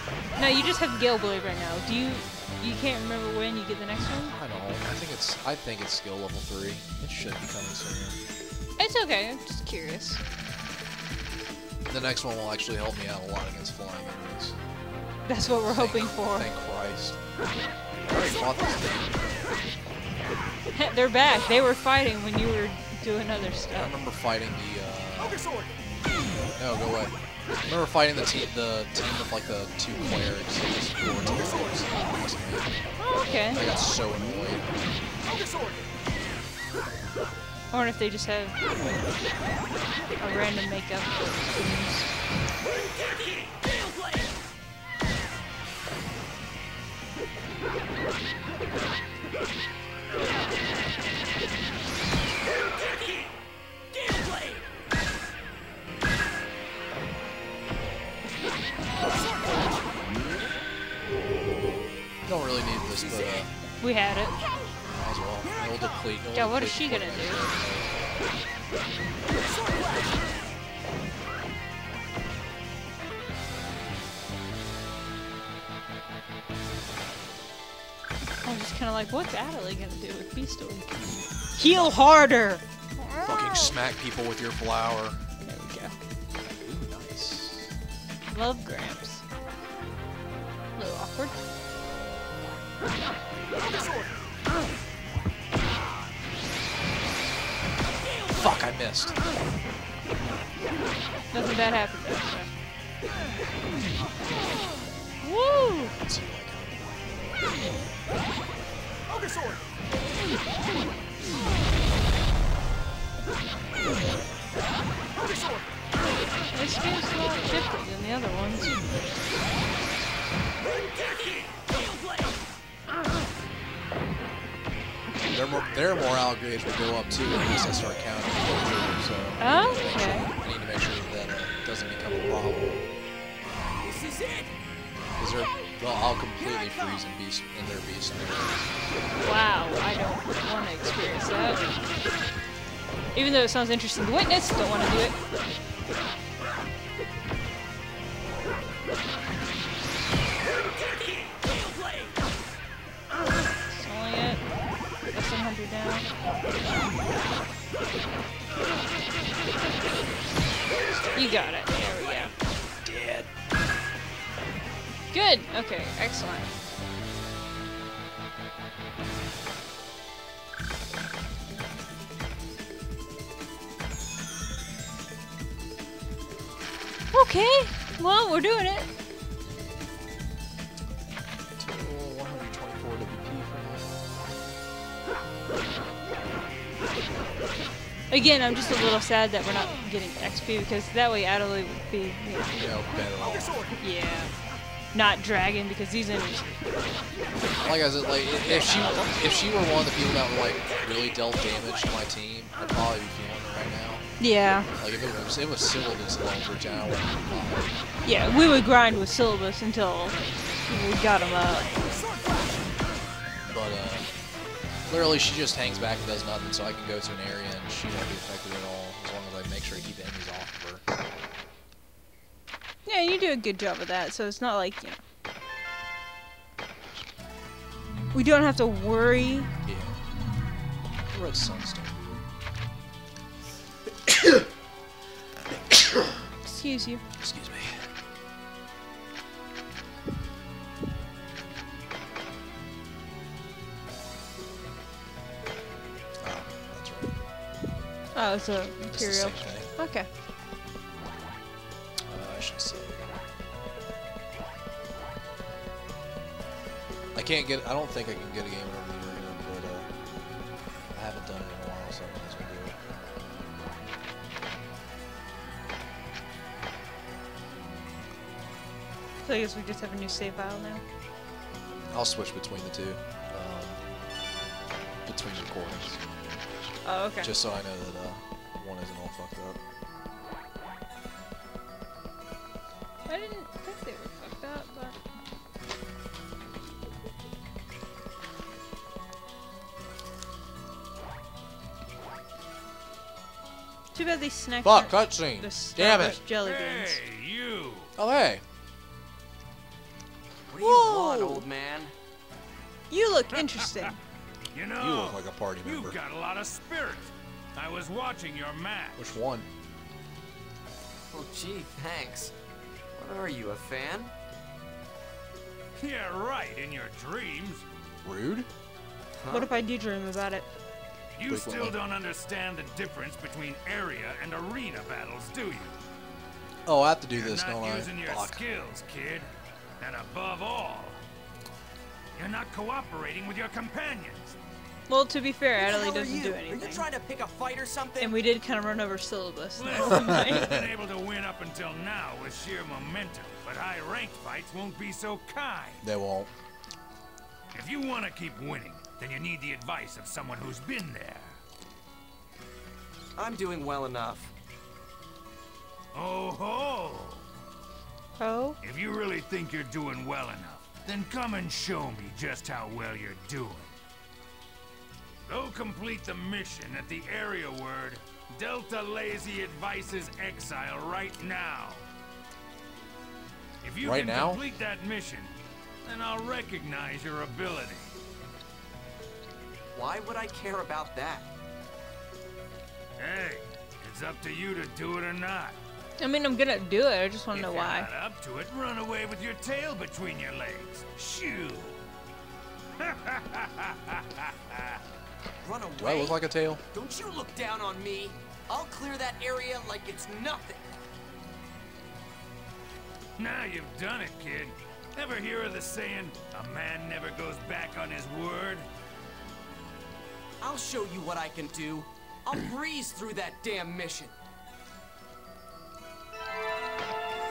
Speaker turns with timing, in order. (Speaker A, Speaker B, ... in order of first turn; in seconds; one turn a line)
Speaker A: 0.4-4.4
Speaker B: 4.3-8.2
Speaker A: 8.8-10.2
Speaker B: 11.9-14.6
Speaker A: 15.3-16.5
Speaker B: 15.6-17.2
Speaker B: 18.1-19.6
Speaker A: 20.7-23.9
Speaker B: 23.7-25.4
Speaker C: 25.5-25.7
Speaker B: 26.6-27.1
Speaker B: 27.7-32.7
Speaker A: 33.0-33.6
Speaker B: 33.5-34.7
Speaker C: 35.3-35.8
Speaker A: 37.7-38.6
Speaker A: 40.2-42.1
Speaker C: 59.0-60.6
Speaker B: 62.2-63.5
Speaker A: 63.8-64.4
Speaker B: 64.9-68.2
Speaker C: 65.4-66.1
Speaker A: 66.3-67.5
Speaker C: 69.4-70.3
Speaker A: 78.4-83.8
Speaker B: 81.5-82.0
Speaker B: 83.2-85.2
Speaker A: 85.5-86.0
Speaker B: 86.6-87.7
Speaker A: 88.2-89.2
Speaker A: 90.8-91.3
Speaker B: 98.3-99.2
Speaker A: 101.3-102.5
Speaker A: 105.2-106.0
Speaker B: 105.9-107.5
Speaker A: 116.5-118.8
Speaker B: 125.2-132.8
Speaker A: 129.4-130.3
Speaker B: 133.4-133.8
Speaker C: 133.8-134.6
Speaker B: 135.2-138.6
Speaker C: 136.4-137.0
Speaker A: 139.2-141.6
Speaker A: 143.2-145.2
Speaker A: 153.7-154.4
Speaker A: 155.1-156.1
Speaker B: 160.7-161.4
Speaker A: 161.2-162.3
Speaker B: 162.8-163.3
Speaker A: 165.1-166.5
Speaker A: 177.1-178.9
Speaker B: 181.5-184.0
Speaker A: 188.1-192.7
Speaker B: 192.5-193.6
Speaker A: 193.8-194.3
Speaker A: 194.9-196.6
Speaker B: 197.6-204.1
Speaker A: 198.4-199.2
Speaker A: 204.2-204.7
Speaker B: 204.8-207.8
Speaker A: 208.1-211.7
Speaker C: 211.9-212.7
Speaker B: 213.5-214.1
Speaker B: 214.9-220.8
Speaker A: 222.9-225.0
Speaker A: 228.1-229.5
Speaker B: 229.7-230.0
Speaker B: 231.1-232.2
Speaker B: 233.9-234.5
Speaker B: 235.5-236.3
Speaker A: 236.4-237.0
Speaker B: 237.2-237.9
Speaker B: 246.2-247.1
Speaker A: 248.2-250.1
Speaker B: 248.9-249.7
Speaker B: 252.1-253.2
Speaker B: 257.1-259.9
Speaker B: 260.9-262.8
Speaker A: 269.2-270.8
Speaker B: 271.9-273.8
Speaker B: 275.1-276.0
Speaker A: 276.9-277.3
Speaker B: 277.2-279.6
Speaker A: 283.1-285.0
Speaker A: 293.9-297.0
Speaker B: 294.6-296.2
Speaker D: 296.1-297.9
Speaker B: 298.0-298.4
Speaker C: 300.5-301.9
Speaker A: 300.6-301.5
Speaker A: 302.9-304.0
Speaker D: 303.3-303.9
Speaker D: 304.5-309.1
Speaker B: 304.8-306.0
Speaker B: 309.0-309.5
Speaker C: 311.1-312.3
Speaker C: 313.0-314.1
Speaker D: 315.8-317.6
Speaker B: 318.0-318.5
Speaker C: 319.2-319.5
Speaker A: 319.3-320.5
Speaker D: 321.2-325.8
Speaker B: 321.3-321.8
Speaker B: 326.7-328.4
Speaker D: 327.1-331.0
Speaker D: 332.2-334.4
Speaker A: 334.9-336.9
Speaker C: 335.6-338.2
Speaker A: 338.0-340.5
Speaker D: 339.6-345.8
Speaker B: 339.9-340.7
Speaker B: 345.8-346.3
Speaker D: 347.5-351.4
Speaker C: 353.2-354.3
Speaker D: 355.9-357.2
Speaker A: 358.2-358.6
Speaker D: 358.6-363.7
Speaker D: 365.3-371.8
Speaker D: 373.6-377.9
Speaker B: 373.8-374.4
Speaker C: 379.7-381.3
Speaker D: 383.0-385.6
Speaker A: 386.0-387.9
Speaker D: 387.3-391.8
Speaker D: 392.8-394.8
Speaker C: 395.4-396.2
Speaker B: 395.8-396.6
Speaker C: 396.7-400.7
Speaker D: 403.2-408.7
Speaker C: 410.4-414.1